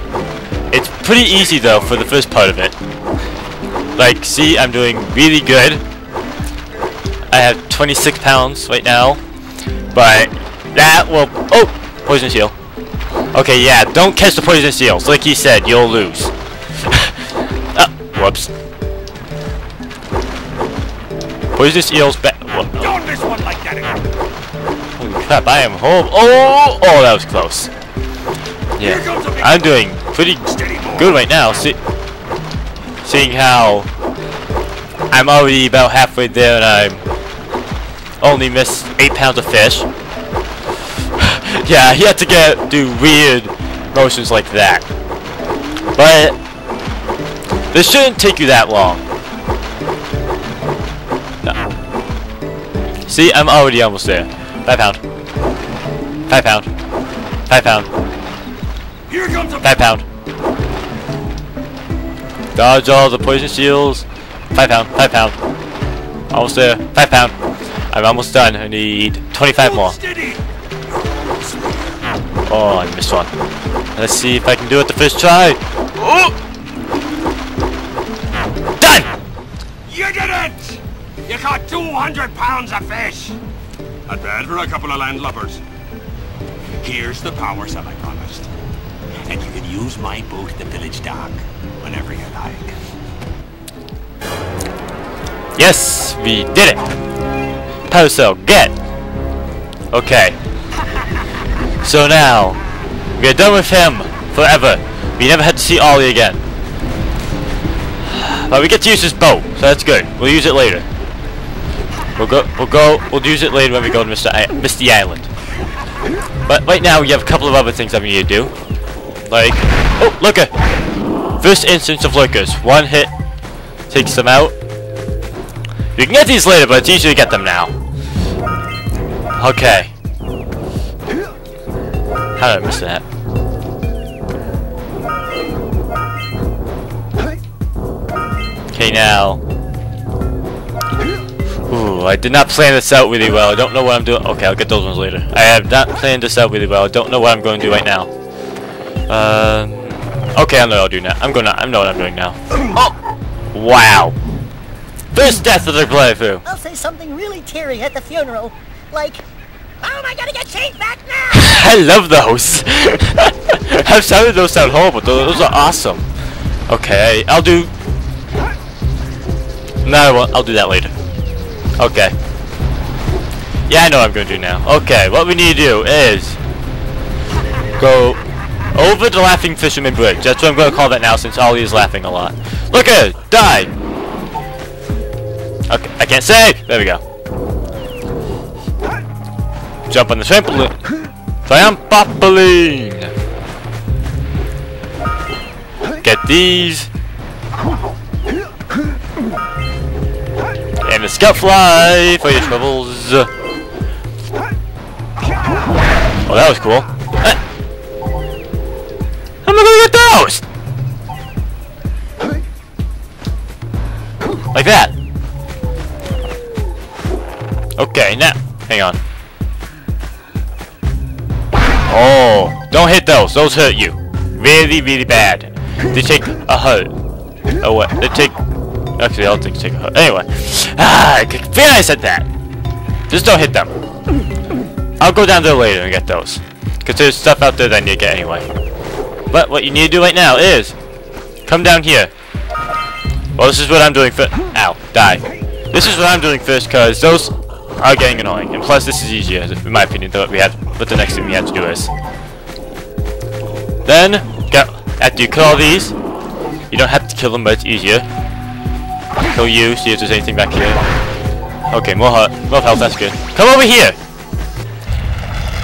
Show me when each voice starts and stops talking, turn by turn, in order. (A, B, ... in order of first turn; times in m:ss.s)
0:00.7-0:02.8 A
0:04.0-0:05.8 A
0:07.3-0:09.2 A
0:09.9-0:12.6 A
0:13.3-0:18.5 A
0:21.5-0:22.9 A
0:22.8-0:24.1 B
0:25.0-0:27.7 A
0:28.8-0:31.8 A
0:28.8-0:29.7 B
0:30.5-0:31.2 B
0:33.0-0:33.9 A
0:35.1-0:37.0 A
0:38.2-0:39.9 A
0:41.2-0:44.9 A
0:45.9-0:46.4 A
0:47.7-0:49.0 A
0:53.1-0:55.0 A
0:56.3-0:56.7 A
0:57.5-0:57.9 A
0:59.1-0:59.6 B
0:59.6-1:00.0 A
1:02.6-1:05.4 A
1:06.3-1:07.4 A
1:07.9-1:10.0 A
1:09.6-1:12.0 B
1:12.5-1:13.3 A
1:14.0-1:16.3 A
1:18.8-1:19.2 A
1:19.9-1:23.4 B
1:24.1-1:25.6 B
1:26.8-1:28.5 B
1:29.3-1:32.8 B
1:35.6-1:36.9 A
1:37.9-1:38.8 A
1:39.9-1:40.4 A
1:41.8-1:42.6 A
1:43.1-1:46.4 A
1:48.0-1:50.9 A
1:52.2-1:55.3 A
1:56.4-1:58.5 A
1:59.2-2:00.5 A
2:01.4-2:03.1 A
2:03.9-2:04.6 A
2:06.0-2:07.7 A
2:09.4-2:09.9 A
2:12.4-2:13.0 A
2:18.7-2:19.4 A
2:21.7-2:28.1 A
2:29.1-2:32.9 A
2:33.5-2:34.2 A
2:35.1-2:36.4 A
2:36.4-2:39.2 C
2:39.8-2:41.6 C
2:41.3-2:46.1 A
2:46.7-2:47.7 A
2:49.8-2:51.0 A
2:51.8-2:52.2 A
2:53.7-2:56.4 A
2:57.8-2:58.2 A
2:58.7-3:03.7 A
3:05.7-3:07.0 A
3:09.9-3:10.8 A
3:11.5-3:13.1 A
3:16.0-3:16.9 A
3:20.8-3:23.3 A
3:26.2-3:27.4 A
3:29.4-3:30.4 A
3:34.5-3:34.9 A
3:37.8-3:39.0 A
3:41.9-3:46.9 A
3:47.6-3:48.4 A
3:49.0-3:52.3 A
3:53.1-3:53.7 A
3:55.0-3:58.5 A
3:59.3-4:00.8 A
4:01.5-4:02.1 A
4:03.4-4:11.9 A
4:13.8-4:16.0 A
4:16.7-4:18.1 A
4:19.3-4:20.8 A
4:21.7-4:24.0 A